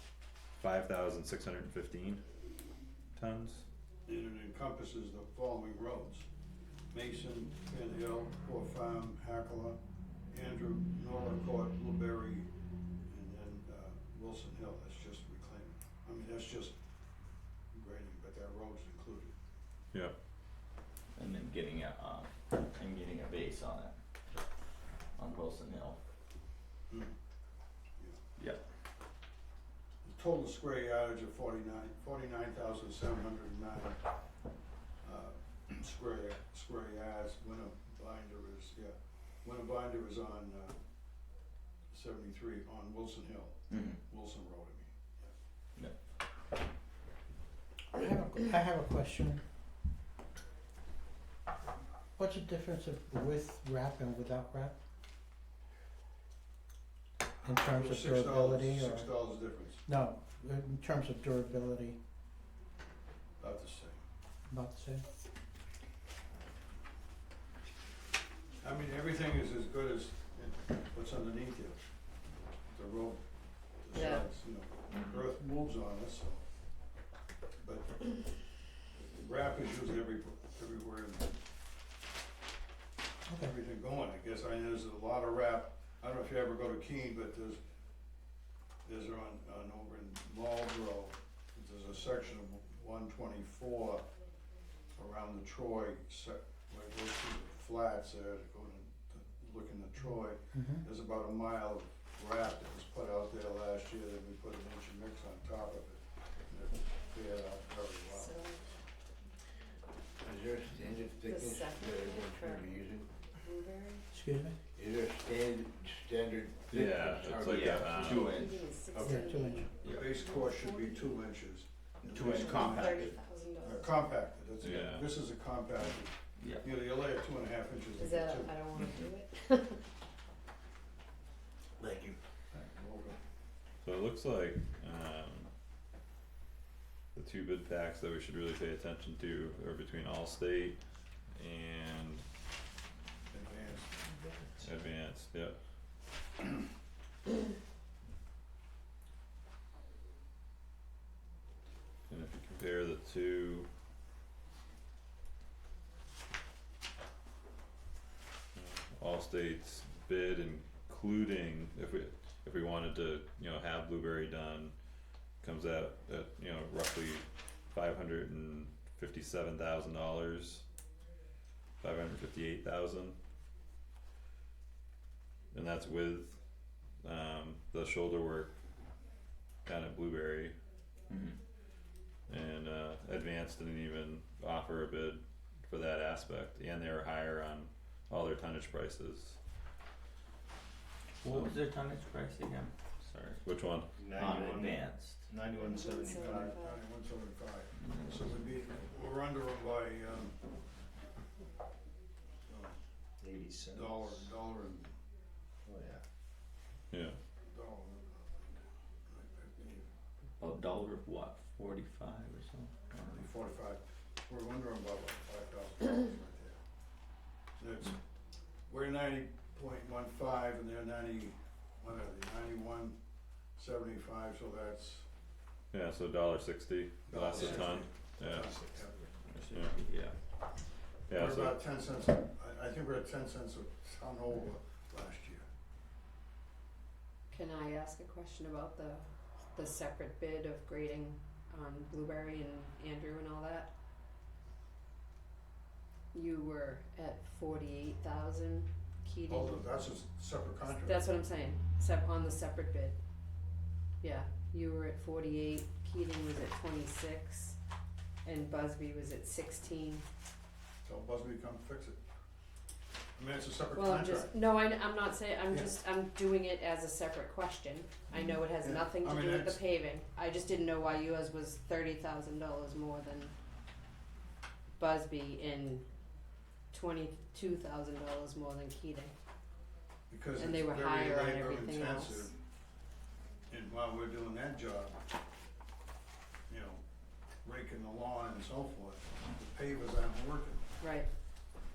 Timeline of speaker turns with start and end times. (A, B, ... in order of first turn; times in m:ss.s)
0:00.6-0:02.2 A
0:03.1-0:03.6 A
0:04.0-0:06.3 B
0:06.9-0:09.8 B
0:10.3-0:12.5 B
0:13.1-0:16.7 B
0:17.7-0:19.3 B
0:21.1-0:23.9 C
0:25.1-0:26.0 C
0:30.0-0:34.0 B
0:35.0-0:40.8 B
0:41.9-0:45.3 B
0:43.7-0:44.0 C
0:47.9-0:49.4 D
0:52.2-0:54.7 D
0:57.4-0:59.1 D
0:57.5-0:59.8 B
0:59.8-1:02.0 D
1:03.4-1:04.0 B
1:04.5-1:05.0 D
1:08.6-1:11.8 B
1:12.7-1:13.2 B
1:13.8-1:16.4 B
1:13.9-1:14.3 E
1:14.9-1:15.2 C
1:17.6-1:18.2 B
1:19.1-1:21.3 B
1:23.3-1:23.5 D
1:23.4-1:27.6 B
1:28.8-1:34.0 B
1:35.0-1:48.3 B
1:40.5-1:40.8 D
1:48.1-1:48.8 E
1:50.2-1:53.1 F
1:51.2-1:52.8 E
1:53.4-1:54.1 E
1:54.1-1:54.6 D
1:54.7-1:57.9 F
1:56.7-1:58.4 A
1:57.2-1:58.7 C
1:57.8-2:01.3 E
1:59.0-1:59.7 D
1:59.8-2:00.1 C
1:59.8-2:08.8 B
2:02.0-2:03.1 C
2:02.2-2:04.1 E
2:04.6-2:05.1 A
2:06.4-2:06.8 C
2:07.9-2:09.8 E
2:08.8-2:09.1 C
2:12.5-2:13.2 B
2:13.8-2:15.5 A
2:17.1-2:20.8 A
2:21.3-2:22.2 A
2:23.3-2:23.9 B
2:24.0-2:24.6 C
2:24.6-2:25.6 A
2:32.1-2:33.7 A
2:38.5-2:44.7 A
2:45.4-2:50.6 A
2:51.8-2:53.2 A
2:55.5-2:56.4 A
2:57.0-2:58.5 A
2:59.6-3:00.6 A
3:01.1-3:01.4 C
3:02.3-3:09.4 A
3:11.2-3:13.4 C
3:11.3-3:11.5 A
3:13.4-3:13.9 A
3:14.0-3:15.3 C
3:15.4-3:16.9 E
3:16.1-3:20.3 B
3:17.8-3:18.4 C
3:22.5-3:22.8 B
3:23.6-3:24.9 B
3:26.9-3:27.2 A
3:27.5-3:29.9 B
3:30.4-3:33.2 C
3:33.1-3:36.6 B
3:37.6-3:38.0 B
3:38.7-3:43.0 B
3:43.6-3:45.0 B
3:45.7-3:48.5 A
3:47.1-3:48.9 B
3:47.3-3:47.6 C
3:49.3-3:50.1 C
3:51.1-3:51.6 A
3:51.1-3:55.4 B
3:57.3-4:03.7 E
4:06.1-4:09.7 E
4:09.3-4:11.1 B
4:10.6-4:13.0 E
4:14.0-4:17.6 E
4:18.2-4:20.0 E
4:20.8-4:22.0 B
4:23.2-4:24.3 B
4:23.7-4:33.3 E
4:28.6-4:29.6 B
4:34.8-4:35.8 E
4:36.7-4:39.1 E
4:40.1-4:42.3 B
4:40.4-4:42.3 E
4:43.5-4:45.0 B
4:46.5-4:46.8 B
4:47.4-4:50.6 B
4:50.8-4:51.1 E